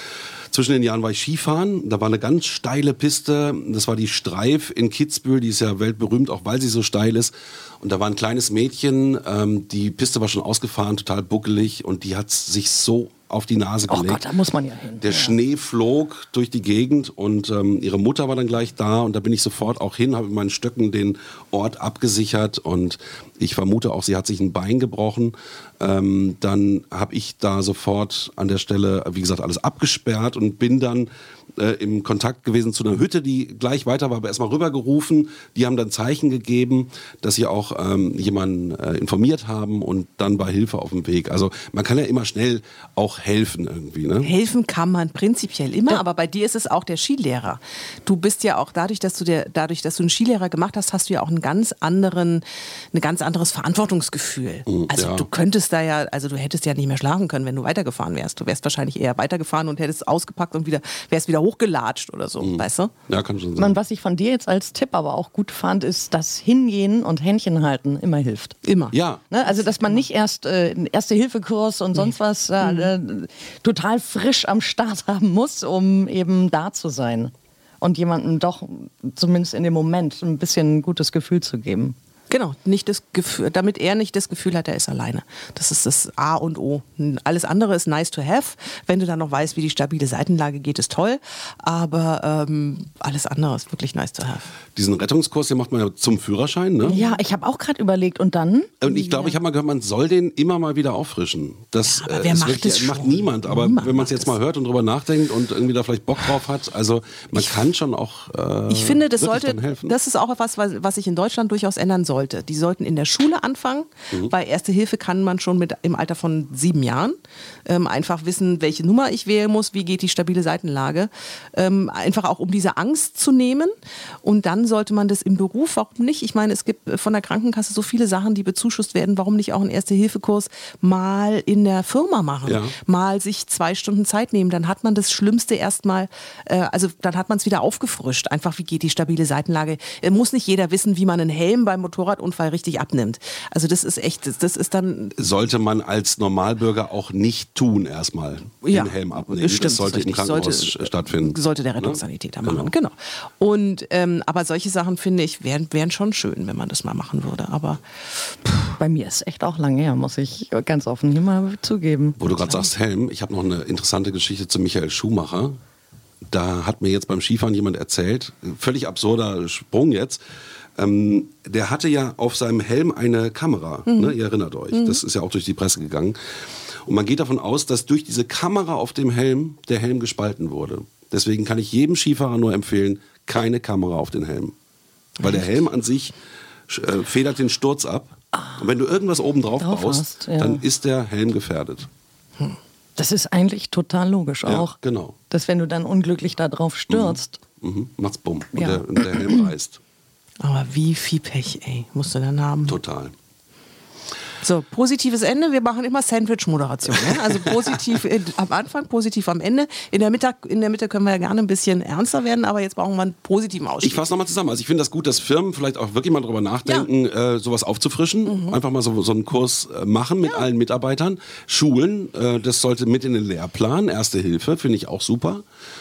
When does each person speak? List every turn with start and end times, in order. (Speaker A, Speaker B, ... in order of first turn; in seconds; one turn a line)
Speaker A: 0.5-14.3
Speaker B: 13.9-15.4
Speaker A: 15.0-44.3
Speaker C: 44.2-62.9
Speaker A: 54.7-55.3
Speaker A: 62.4-63.8
Speaker B: 63.6-68.6
Speaker C: 68.7-69.0
Speaker A: 68.9-69.2
Speaker B: 69.3-82.0
Speaker C: 69.5-70.0
Speaker C: 72.0-72.9
Speaker C: 82.3-94.5
Speaker A: 94.8-97.0
Speaker C: 96.9-97.2
Speaker B: 96.9-99.3
Speaker A: 98.8-110.0
Speaker C: 101.8-104.3
Speaker C: 108.7-145.1
Speaker A: 132.4-132.8
Speaker A: 145.2-152.7
Speaker C: 148.6-158.7
Speaker B: 158.8-162.2
Speaker A: 162.2-165.6
Speaker C: 162.3-162.7
Speaker A: 166.3-170.2
Speaker A: 170.8-176.2
Speaker C: 173.9-174.2
Speaker C: 174.7-175.0
Speaker A: 176.9-184.5
Speaker A: 185.2-186.2
Speaker A: 186.7-191.9
Speaker B: 188.3-188.7
Speaker B: 189.6-190.6
Speaker B: 193.0-194.8
Speaker A: 194.5-195.2
Speaker B: 195.3-197.4
Speaker A: 196.9-199.8
Speaker B: 198.5-199.2
Speaker C: 200.4-202.8
Speaker A: 202.7-203.1
Speaker C: 204.4-214.1
Speaker A: 213.8-225.4
Speaker C: 218.3-218.6